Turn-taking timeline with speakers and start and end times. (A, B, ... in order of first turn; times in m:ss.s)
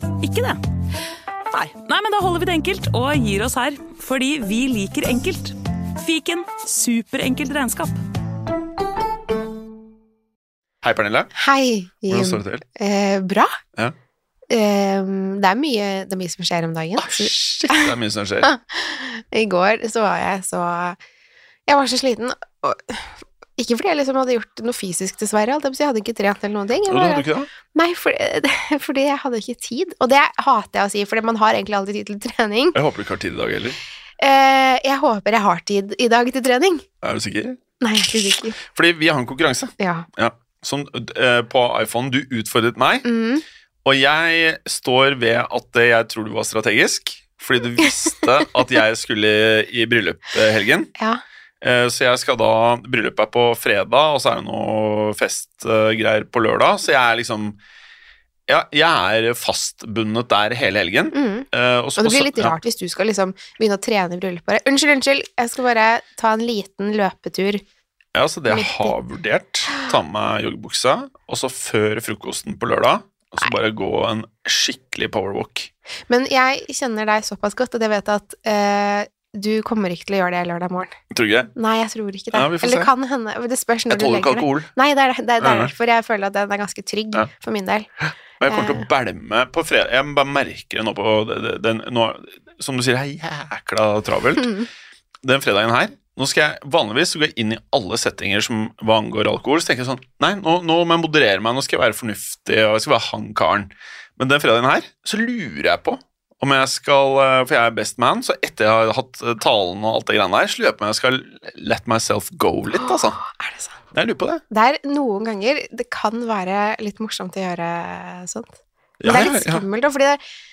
0:00.2-0:00.6 A
0:01.5-0:08.0 A
0:10.8-0:11.3 B
0:11.3-0:13.6 C
0:12.1-0:12.6 B
0:14.5-0:21.0 C
0:17.0-0:18.5 B
0:21.7-0:32.8 C
0:26.9-0:27.5 B
0:32.7-0:33.8 B
0:34.2-0:36.8 C
0:37.0-0:43.0 B
0:37.8-0:38.6 C
0:39.8-0:40.1 C
0:43.0-0:43.4 C
0:43.8-0:50.9 B
0:51.0-0:51.2 C
0:51.6-0:57.6 B
0:58.5-1:02.6 B
1:01.1-1:07.6 C
1:08.1-1:15.7 B
1:08.5-1:08.9 C
1:16.1-1:21.0 C
1:21.1-1:21.5 B
1:21.5-1:27.9 C
1:22.3-1:22.9 B
1:23.9-1:24.7 B
1:25.4-1:25.7 B
1:28.4-1:34.5 B
1:28.5-1:28.9 C
1:35.2-1:53.2 B
1:52.7-1:53.8 C
1:53.9-1:54.4 B
1:54.5-2:00.2 C
1:59.0-1:59.6 B